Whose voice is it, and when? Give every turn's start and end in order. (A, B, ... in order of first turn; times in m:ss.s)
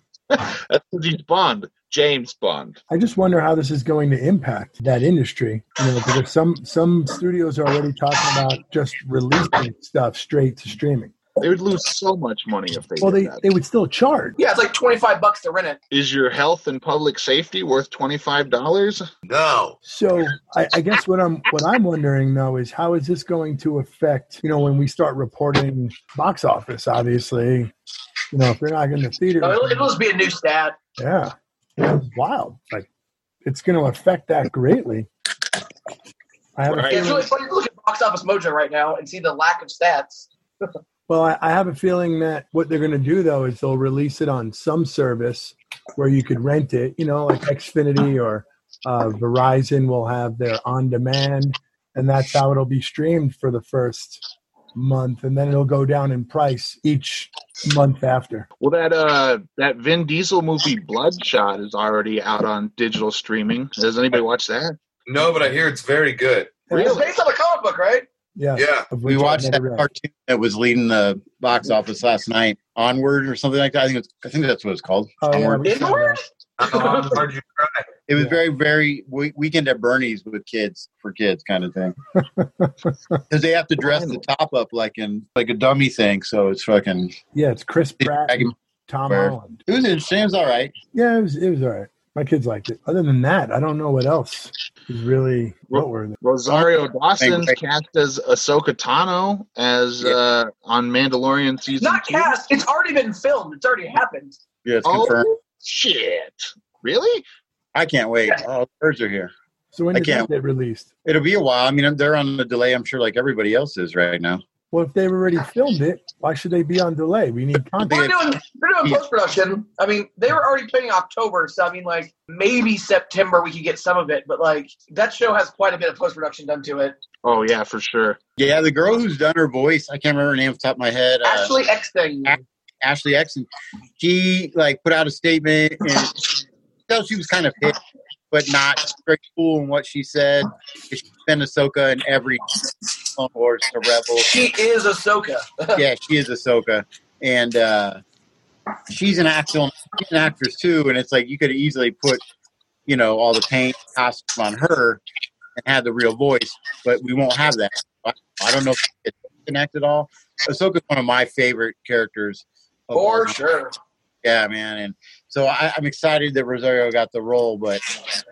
0:00.3-0:02.8 A
0:02.9-0:11.1 B
0:11.4-0:13.5 A
0:13.0-0:14.4 B
0:14.4-0:15.8 C
0:15.9-0:19.1 A
0:19.3-0:19.8 D
0:19.8-0:27.7 B
0:28.3-0:29.9 B
0:29.4-0:30.8 C
0:31.0-0:32.9 B
0:33.4-0:35.1 B
0:36.6-0:37.3 B
0:36.7-0:37.2 A
0:36.9-0:40.3 C
0:41.1-0:54.2 B
0:54.8-0:58.5 B
0:58.6-1:04.8 A
1:05.1-1:06.6 D
1:06.7-1:07.0 B
1:06.7-1:07.1 A
1:06.8-1:08.1 C
1:08.4-1:09.9 B
1:08.6-1:08.9 D
1:09.1-1:15.8 E
1:15.2-1:16.2 B
1:15.6-1:17.2 C
1:16.6-1:17.9 D
1:18.1-1:22.0 E
1:22.2-1:23.2 B
1:23.3-1:27.1 E
1:27.3-1:29.6 B
1:28.0-1:28.5 E
1:29.1-1:30.7 E
1:30.9-1:36.2 B
1:35.7-1:42.4 A
1:36.4-1:37.6 E
1:41.8-1:44.4 C
1:44.6-1:45.3 E
1:44.8-1:47.2 A
1:47.8-1:49.3 E
1:49.7-1:50.9 B
1:49.9-1:50.3 E
1:51.0-1:54.4 E
1:54.7-1:58.1 B
1:57.8-2:07.0 C
1:57.9-1:58.2 E
2:07.2-2:08.2 A
2:08.4-2:11.5 E
2:11.2-2:12.4 C
2:12.2-2:16.2 E
2:16.9-2:17.8 E
2:18.3-2:24.4 E
2:24.2-2:25.8 C
2:25.8-2:28.0 E
2:28.9-2:32.2 E
2:32.9-2:35.0 E
2:35.6-2:43.4 E
2:42.9-2:43.7 C
2:44.2-2:47.8 E